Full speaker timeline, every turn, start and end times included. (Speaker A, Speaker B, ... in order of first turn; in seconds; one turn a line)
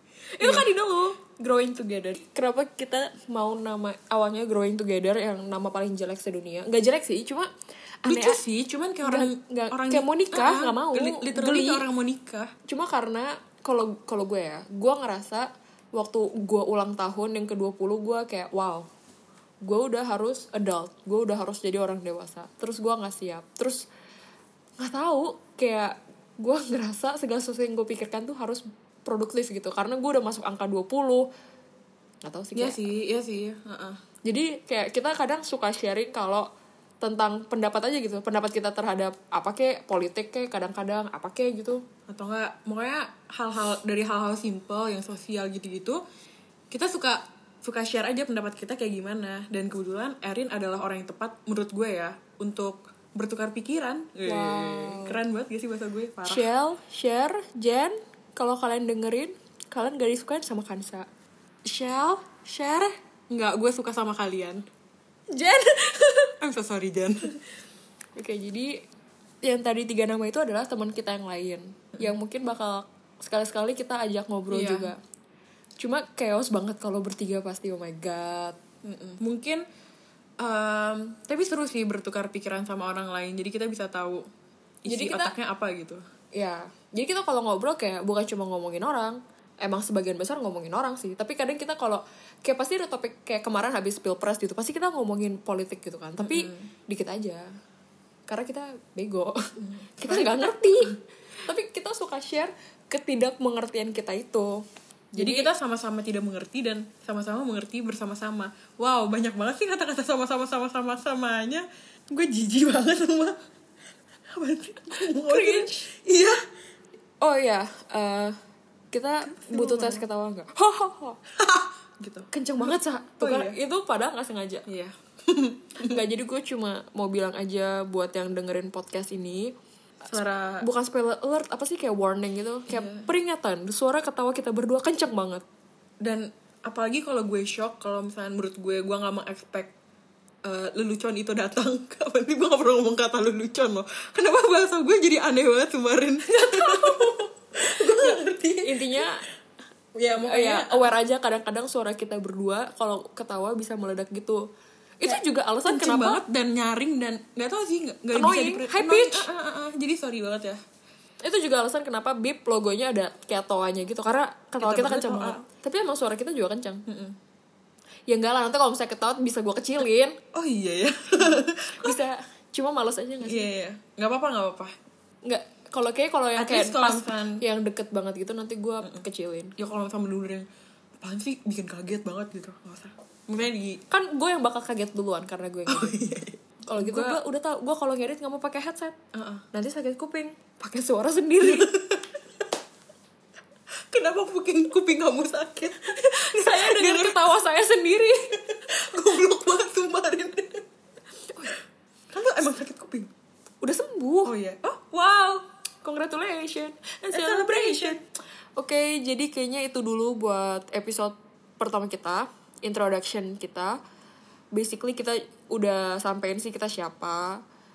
Speaker A: 0.3-7.5
Speaker B: 0.4-0.7
Speaker A: 8.0-8.4
Speaker B: 8.1-12.5
Speaker A: 9.0-11.8
Speaker A: 12.7-18.9
Speaker A: 19.6-23.9
Speaker A: 24.8-31.3
Speaker A: 32.2-32.9
Speaker B: 32.5-34.0
Speaker A: 34.2-36.5
Speaker A: 37.0-41.8
Speaker B: 42.1-46.0
Speaker B: 46.7-56.5
Speaker A: 54.2-55.2
Speaker A: 56.2-61.1
Speaker B: 61.7-64.6
Speaker A: 65.3-66.3
Speaker B: 66.4-67.4
Speaker A: 68.2-68.7
Speaker A: 69.4-75.0
Speaker B: 74.5-74.9
Speaker A: 75.8-78.6
Speaker B: 78.8-79.6
Speaker B: 80.4-84.3
Speaker B: 84.8-86.0
Speaker A: 84.8-85.3
Speaker A: 86.3-97.5
Speaker B: 96.2-96.7
Speaker A: 98.3-105.5
Speaker B: 99.6-101.0
Speaker B: 105.2-113.4
Speaker B: 114.3-116.4
Speaker A: 115.1-115.8
Speaker A: 117.2-118.4
Speaker A: 118.9-121.2
Speaker B: 119.2-120.0
Speaker B: 121.4-123.5
Speaker A: 122.3-124.6
Speaker B: 124.7-126.0
Speaker A: 125.8-129.5
Speaker B: 130.1-130.6
Speaker A: 130.6-135.4
Speaker B: 132.7-133.1
Speaker B: 136.0-139.7
Speaker B: 140.4-149.1
Speaker A: 146.3-149.2
Speaker B: 149.9-150.9
Speaker A: 150.2-154.4
Speaker A: 155.0-156.2
Speaker B: 155.0-160.6
Speaker A: 158.1-159.3
Speaker A: 161.2-166.8
Speaker B: 164.6-165.4
Speaker B: 166.9-167.2
Speaker A: 168.1-170.2
Speaker B: 170.3-172.0
Speaker A: 171.8-173.5
Speaker B: 173.2-174.7
Speaker A: 175.2-179.5
Speaker B: 176.4-177.4
Speaker B: 179.6-180.5
Speaker B: 181.0-183.8
Speaker A: 183.9-186.0
Speaker B: 185.7-187.2
Speaker A: 186.7-188.9
Speaker B: 189.1-189.4
Speaker A: 189.5-191.8
Speaker B: 191.4-192.0
Speaker B: 193.9-197.3
Speaker A: 196.1-198.4
Speaker B: 198.3-200.6
Speaker B: 202.1-203.1
Speaker A: 203.6-204.3
Speaker B: 204.2-205.4
Speaker A: 205.8-208.0
Speaker B: 207.1-208.0
Speaker A: 208.6-213.8
Speaker A: 214.5-217.4